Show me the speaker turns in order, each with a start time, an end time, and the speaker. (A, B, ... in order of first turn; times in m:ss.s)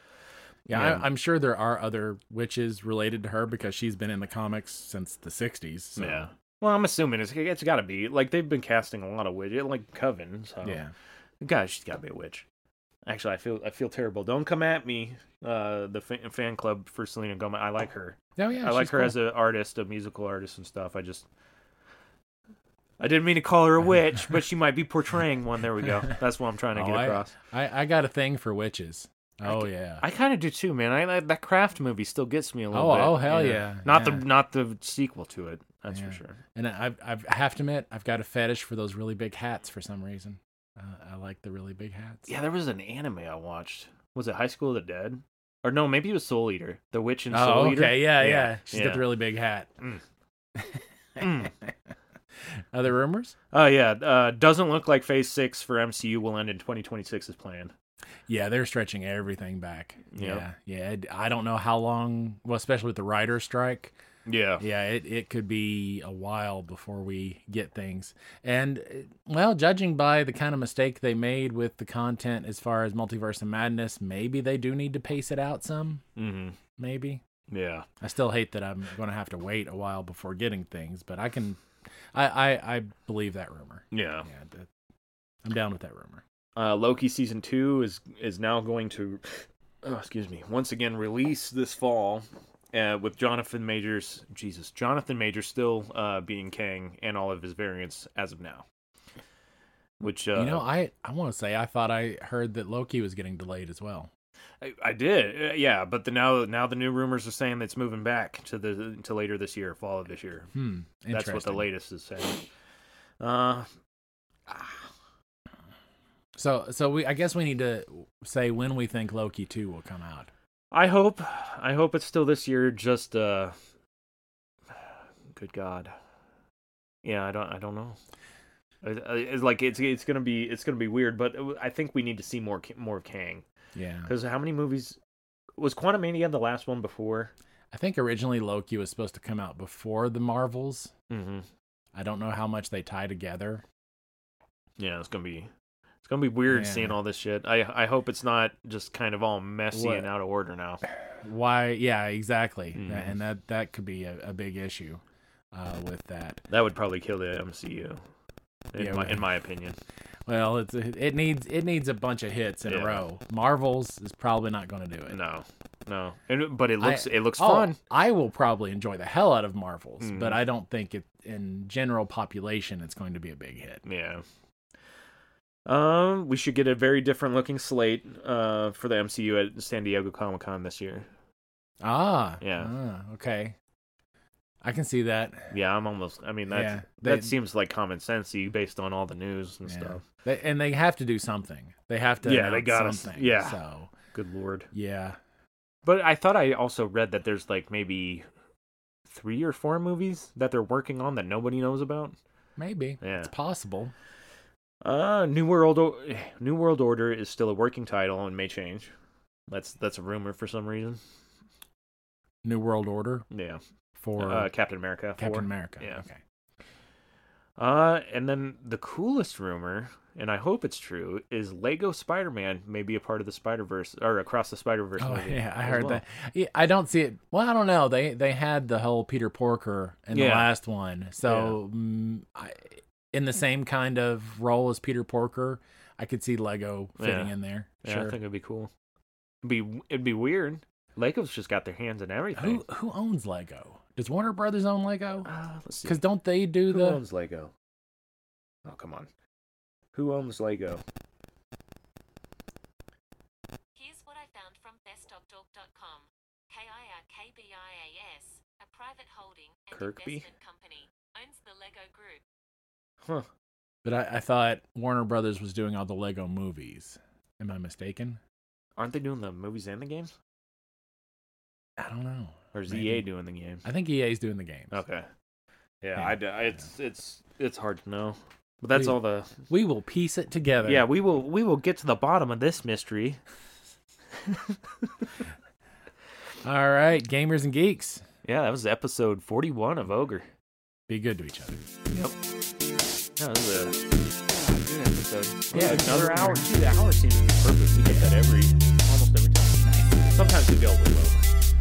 0:00.7-0:06.3 A
0:00.7-0:01.0 B
0:06.0-0:10.8 B
0:10.6-0:10.9 A
0:11.4-0:12.4 B
0:13.0-0:21.3 B
0:18.4-0:19.2 A
0:23.0-0:27.3 B
0:26.7-0:30.0 A
0:29.4-0:36.4 B
0:32.7-0:34.2 A
0:35.9-0:42.3 A
0:42.3-0:49.2 B
0:47.3-0:49.7 A
0:50.6-0:51.7 A
0:51.2-0:51.5 B
0:52.7-0:53.3 A
0:53.5-0:57.7 B
0:58.3-1:03.9 A
1:00.1-1:00.4 B
1:04.2-1:04.6 B
1:04.6-1:16.0 A
1:16.2-1:16.6 B
1:16.8-1:17.2 A
1:17.5-1:17.9 B
1:18.0-1:24.7 A
1:23.9-1:24.3 B
1:25.4-1:26.2 A
1:26.6-1:38.6 B
1:40.0-1:40.6 B
1:40.3-1:44.1 A
1:44.6-1:50.5 B
1:50.5-1:51.7 A
1:51.1-1:52.4 B
1:53.2-1:53.7 B
1:54.5-1:54.9 B
1:56.4-2:00.3 A
2:00.7-2:03.5 B
2:04.7-2:05.9 B
2:07.0-2:08.0 B
2:08.8-2:13.4 B
2:13.7-2:14.1 A
2:14.1-2:15.0 B
2:15.6-2:17.3 B
2:17.7-2:20.9 A
2:21.1-2:21.5 B
2:21.9-2:23.6 A
2:24.8-2:25.5 B
2:26.0-2:30.8 B
2:26.5-2:27.0 A
2:29.7-2:30.1 A
2:31.2-2:35.0 A
2:32.7-2:33.1 B
2:35.5-2:36.4 A
2:36.5-2:38.0 B
2:38.7-2:39.8 B
2:38.8-2:39.2 A
2:40.3-2:45.2 A
2:42.6-2:43.0 B
2:45.1-2:47.8 B
2:46.8-2:53.8 A
2:50.0-2:50.4 B
2:53.8-2:54.2 B
2:55.6-3:01.1 B
3:01.8-3:03.6 A
3:02.4-3:02.7 B
3:04.6-3:05.5 A
3:05.5-3:10.0 B
3:06.5-3:07.3 A
3:09.7-3:13.9 A
3:12.2-3:13.6 B
3:14.1-3:14.7 B
3:14.7-3:15.2 A
3:15.8-3:18.2 B
3:19.1-3:22.2 B
3:22.6-3:23.9 A
3:23.0-3:23.3 B
3:24.8-3:28.9 B
3:29.5-3:31.0 B
3:32.4-3:33.3 A
3:33.3-3:33.6 B
3:34.0-3:34.5 A
3:34.2-3:36.0 B
3:35.2-3:36.2 A
3:37.6-3:46.0 B
3:45.0-3:58.2 A
3:50.1-3:50.5 B
3:51.2-3:51.6 B
3:57.0-3:57.3 B
3:57.8-3:58.7 B
3:59.4-4:02.6 B
4:02.4-4:05.3 A
4:05.2-4:06.0 B
4:05.8-4:07.0 A
4:06.7-4:07.5 B
4:08.6-4:09.1 B
4:09.9-4:10.8 B
4:13.7-4:22.2 C
4:19.7-4:20.2 B
4:23.0-4:23.3 B
4:23.8-4:28.2 A
4:28.8-4:30.1 B
4:31.8-4:33.0 A
4:32.5-4:33.6 B
4:33.6-4:34.8 A
4:34.7-4:35.1 B
4:35.8-4:39.4 B
4:39.5-4:40.8 A
4:40.6-4:43.2 B
4:44.2-4:45.0 B
4:46.4-4:48.0 A
4:48.2-4:50.3 B
4:50.9-4:51.7 A
4:51.9-4:52.2 B
4:53.2-5:01.3 B
4:55.5-4:56.2 A
4:55.6-4:56.3 C